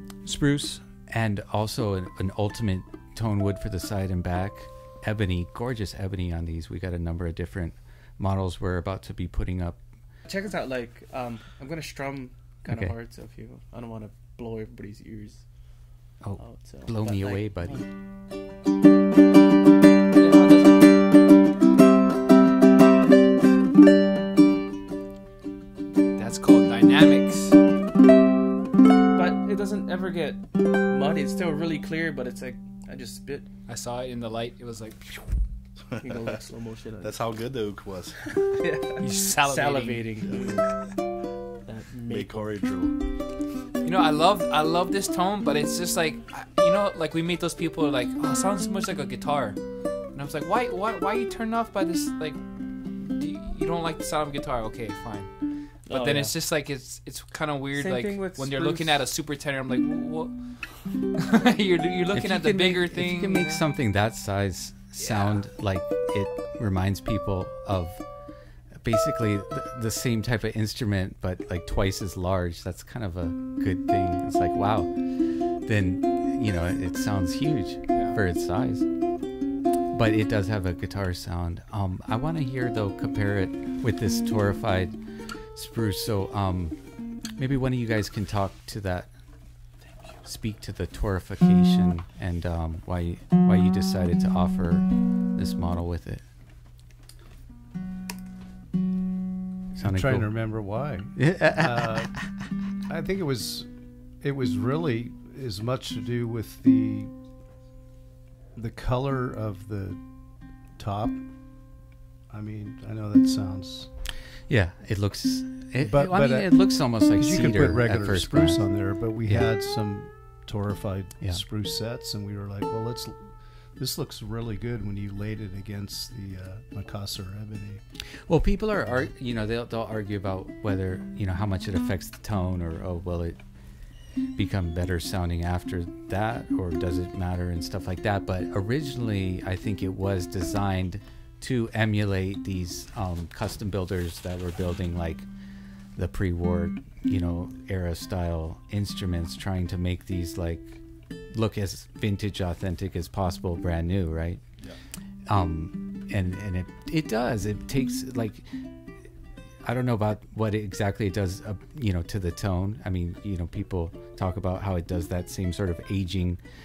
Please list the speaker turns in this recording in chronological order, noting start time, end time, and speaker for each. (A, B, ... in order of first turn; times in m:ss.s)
0:00.2-0:09.8 A
0:10.2-0:15.4 B
0:12.6-0:13.0 A
0:16.2-0:17.8 A
0:16.4-0:17.9 B
0:20.1-0:21.0 B
0:26.2-0:27.6 C
0:29.1-0:33.5 B
0:33.7-0:35.3 C
0:35.9-0:36.4 D
0:36.0-0:37.2 B
0:37.0-0:38.2 D
0:38.2-0:40.7 B
0:39.0-0:40.0 C
0:40.3-0:40.6 D
0:41.6-0:42.6 B
0:42.1-0:42.9 D
0:43.8-0:49.6 C
0:50.1-0:55.3 C
0:55.8-0:56.3 B
0:55.9-1:00.6 C
0:57.7-0:59.0 B
1:01.1-1:03.6 C
1:02.1-1:08.0 A
1:05.0-1:05.4 C
1:08.8-1:18.9 A
1:17.9-1:18.2 C
1:19.9-1:25.0 A
1:25.5-1:26.8 A
1:27.3-1:29.1 A
1:30.2-1:36.2 A
1:39.7-1:40.3 A
1:39.8-1:42.1 E
1:41.2-1:42.3 A
1:42.9-1:43.7 E
1:44.2-1:47.1 E
1:48.5-1:50.0 E
1:50.8-1:51.2 E
1:52.3-1:53.9 E
1:54.5-1:58.6 A
1:55.8-2:07.8 E
2:08.2-2:13.4 A
2:14.3-2:25.3 A
2:26.0-2:34.4 A
2:35.3-2:38.8 A
2:39.6-2:46.4 A